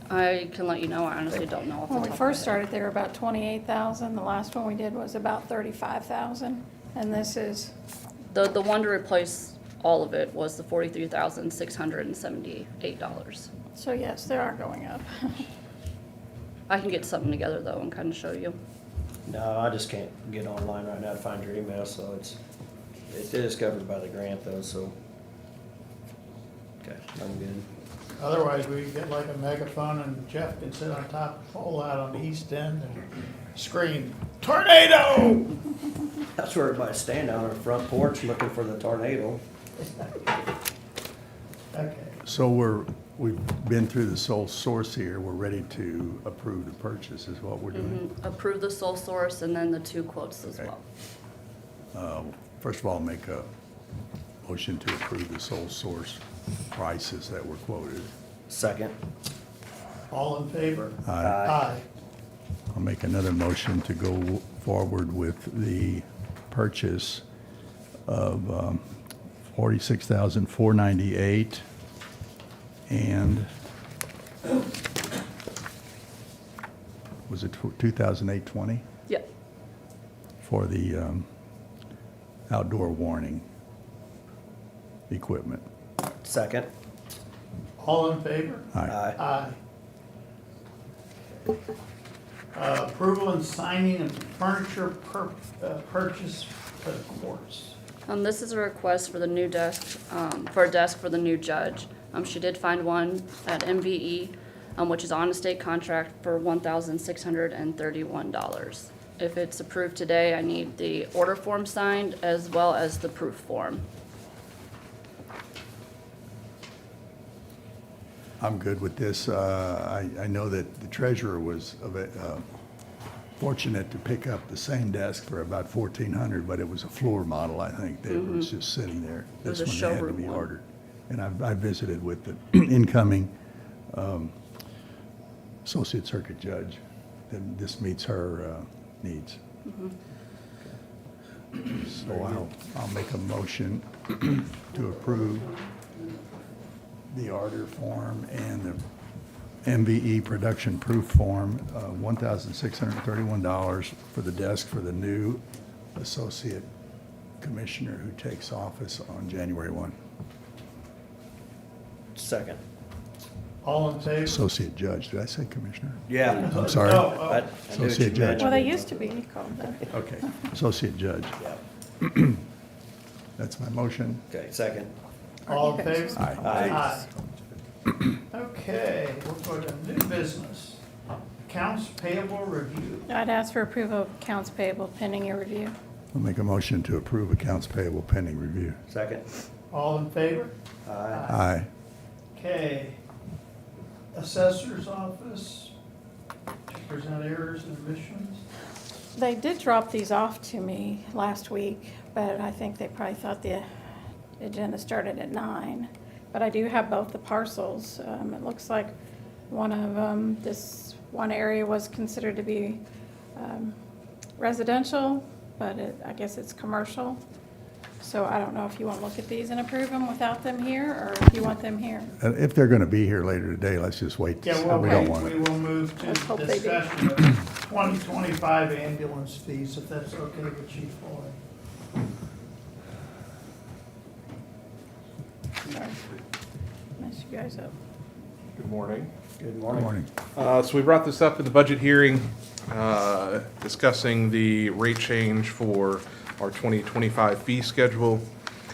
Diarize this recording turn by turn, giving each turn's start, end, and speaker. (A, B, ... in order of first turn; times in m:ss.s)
0:00.1-0:02.6 A
0:01.9-0:07.7 B
0:08.3-0:13.5 A
0:13.8-0:15.4 B
0:16.7-0:18.6 A
0:19.3-0:22.4 C
0:23.1-0:25.0 C
0:26.8-0:27.7 C
0:28.2-0:33.0 D
0:33.5-0:35.4 D
0:36.4-0:39.4 C
0:41.7-0:42.2 D
0:42.2-0:48.0 E
0:47.7-0:50.8 A
0:51.9-0:53.5 E
0:54.4-0:56.2 E
0:56.7-0:58.1 E
0:58.5-0:59.0 C
1:00.1-1:01.0 D
1:01.0-1:01.5 E
1:01.2-1:01.6 C
1:01.5-1:01.8 D
1:02.7-1:07.2 E
1:08.1-1:08.8 E
1:09.5-1:11.6 E
1:12.9-1:13.5 E
1:17.3-1:18.8 E
1:20.4-1:21.3 E
1:22.5-1:23.5 E
1:25.1-1:25.6 E
1:26.2-1:26.7 C
1:27.8-1:29.6 D
1:28.9-1:29.2 C
1:32.5-1:37.8 D
1:38.1-1:53.8 A
1:58.4-2:02.4 E
2:03.4-2:13.3 E
2:08.1-2:08.5 A
2:09.4-2:10.5 A
2:13.9-2:14.3 E
2:15.6-2:19.4 E
2:19.6-2:19.9 A
2:21.8-2:25.6 E
2:21.9-2:22.4 C
2:27.1-2:28.8 E
2:29.6-2:35.4 E
2:36.0-2:36.7 E
2:37.4-2:40.0 E
2:42.1-2:42.6 C
2:43.6-2:44.4 D
2:44.3-2:48.6 E
2:46.1-2:49.2 C
2:46.4-2:47.4 D
2:48.4-2:49.9 B
2:49.9-2:51.4 E
2:52.0-2:52.4 E
2:53.4-2:54.2 E
2:54.3-2:54.9 C
2:55.5-2:56.9 B
2:55.5-2:57.0 D
2:56.2-2:56.6 E
2:56.4-2:56.8 C
2:58.3-3:00.8 D
3:01.5-3:03.1 D
3:03.1-3:05.8 B
3:06.1-3:08.8 E
3:08.9-3:09.3 C
3:09.7-3:10.5 D
3:10.8-3:11.3 C
3:11.3-3:11.7 E
3:12.4-3:13.0 D
3:14.1-3:15.7 D
3:16.7-3:18.4 D
3:19.2-3:23.7 B
3:24.4-3:28.9 B
3:29.5-3:32.8 B
3:33.4-3:33.8 B
3:34.4-3:37.2 B
3:38.0-3:42.1 B
3:42.2-3:45.4 E
3:44.4-3:51.4 D
3:44.8-3:45.2 B
3:46.0-3:46.9 B
3:55.7-3:56.0 B
3:57.0-3:57.7 B
3:58.6-3:59.1 F
3:59.4-4:00.0 C
3:59.7-4:00.1 E
4:00.4-4:08.3 F